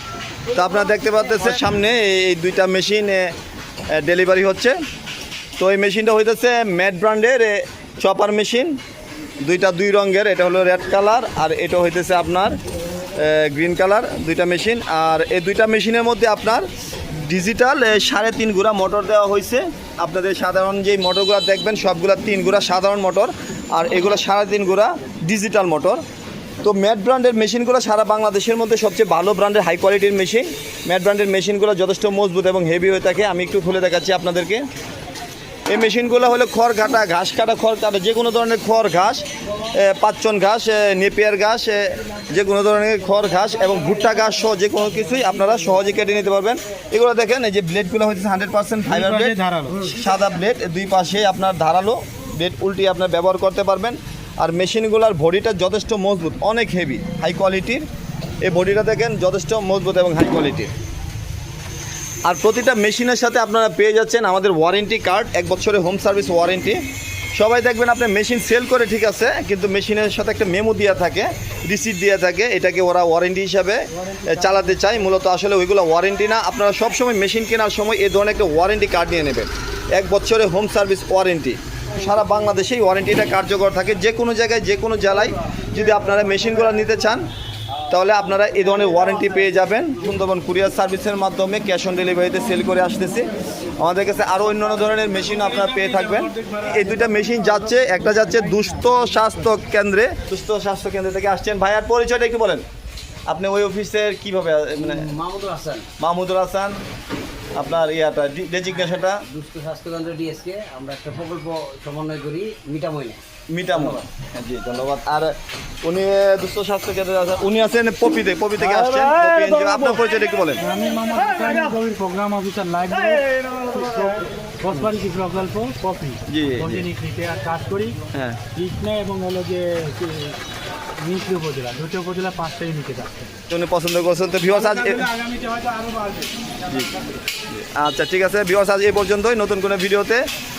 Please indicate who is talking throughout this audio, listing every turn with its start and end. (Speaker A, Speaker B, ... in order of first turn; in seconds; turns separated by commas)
Speaker A: 0.5-3.3, Speaker A: 3.9-4.8, Speaker A: 5.6-8.8, Speaker A: 9.4-12.6, Speaker A: 13.2-16.6, Speaker A: 17.2-26.0, Speaker A: 26.6-34.6, Speaker A: 35.7-57.8, Speaker A: 58.4-60.7, Speaker A: 62.2-66.8, Speaker A: 67.3-87.2, Speaker B: 74.1-74.8, Speaker A: 87.9-102.6, Speaker A: 103.3-105.1, Speaker C: 104.8-105.9, Speaker A: 106.0-106.8, Speaker A: 107.5-109.2, Speaker C: 108.7-114.0, Speaker A: 113.5-120.6, Speaker B: 120.6-128.0, Speaker A: 126.3-126.9, Speaker A: 128.1-128.4, Speaker B: 128.5-130.4, Speaker B: 131.0-133.3, Speaker A: 133.5-135.1, Speaker B: 134.6-136.3, Speaker A: 136.7-140.2